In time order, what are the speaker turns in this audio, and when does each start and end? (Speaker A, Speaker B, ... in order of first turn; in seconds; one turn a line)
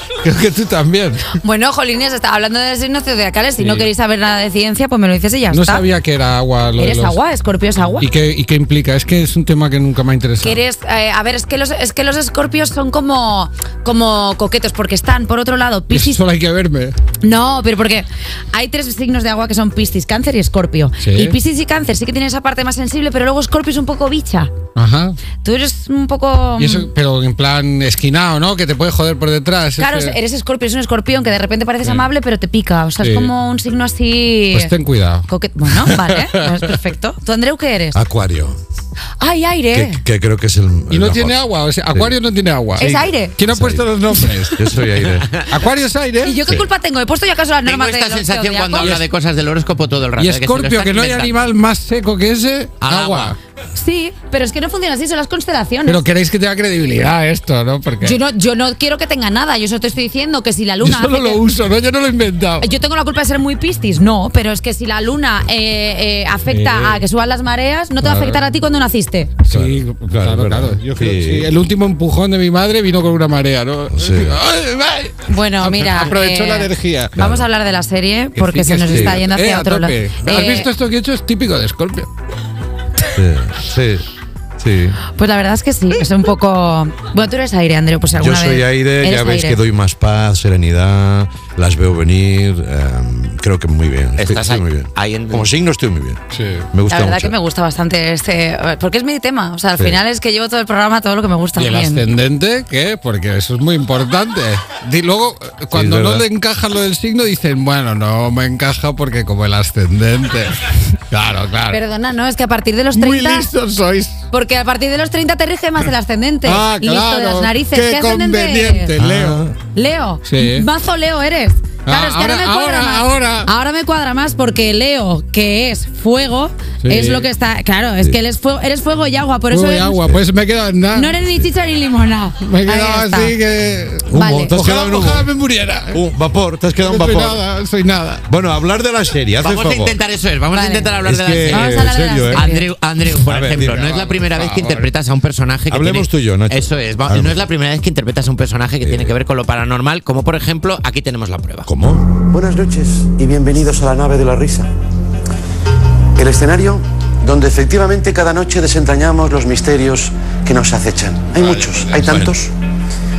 Speaker A: 0.2-1.4
Speaker B: 1.4-5.8
Speaker A: 3.6-3.9
Speaker A: 5.5-7.2
Speaker B: 6.8-8.1
Speaker A: 8.0-10.6
Speaker B: 10.4-16.2
Speaker A: 15.9-16.9
Speaker B: 17.2-24.5
Speaker A: 21.0-21.4
Speaker A: 24.8-25.2
Speaker B: 25.4-26.9
Speaker A: 26.6-30.2
Speaker B: 29.8-34.7
Speaker A: 31.8-32.1
Speaker A: 33.0-33.3
Speaker A: 34.5-36.8
Speaker B: 35.3-38.0
Speaker C: 38.0-38.6
Speaker B: 39.2-40.0
Speaker C: 39.7-41.4
Speaker A: 40.9-46.4
Speaker C: 41.9-42.2
Speaker B: 42.8-43.4
Speaker C: 43.5-44.0
Speaker C: 44.5-45.4
Speaker B: 46.2-49.0
Speaker D: 47.7-51.3
Speaker A: 50.2-53.4
Speaker D: 52.8-53.3
Speaker B: 53.8-56.0
Speaker A: 55.9-58.2
Speaker B: 58.0-61.4
Speaker A: 60.8-62.7
Speaker B: 62.6-69.3
Speaker A: 66.5-67.0
Speaker A: 68.0-68.4
Speaker A: 69.4-77.3
Speaker C: 69.5-71.5
Speaker C: 73.9-74.4
Speaker B: 75.3-80.7
Speaker C: 77.2-77.5
Speaker A: 78.3-82.1
Speaker C: 78.9-79.3
Speaker C: 83.1-84.0
Speaker C: 84.6-85.0
Speaker B: 85.2-89.6
Speaker C: 88.2-96.2
Speaker D: 94.2-95.5
Speaker A: 96.3-96.7
Speaker C: 96.7-97.3
Speaker B: 96.9-102.1
Speaker A: 101.6-111.8
Speaker C: 105.7-106.2
Speaker B: 111.7-113.5
Speaker A: 112.9-114.3
Speaker B: 114.3-119.0
Speaker A: 116.4-119.5
Speaker C: 119.0-119.5
Speaker B: 119.8-130.1
Speaker A: 120.2-120.7
Speaker A: 121.8-123.5
Speaker A: 126.8-127.3
Speaker A: 129.5-131.2
Speaker B: 130.9-133.4
Speaker A: 132.4-136.1
Speaker C: 134.1-135.3
Speaker B: 134.1-134.6
Speaker C: 135.9-137.4
Speaker A: 136.8-138.2
Speaker C: 138.3-140.0
Speaker D: 139.4-151.7
Speaker B: 140.5-140.9
Speaker C: 141.0-142.5
Speaker B: 141.5-142.7
Speaker C: 143.3-143.8
Speaker A: 143.3-144.9
Speaker C: 145.7-147.4
Speaker C: 148.8-149.1
Speaker C: 151.7-152.1
Speaker E: 152.3-154.7
Speaker E: 156.2-162.5
Speaker C: 161.9-162.4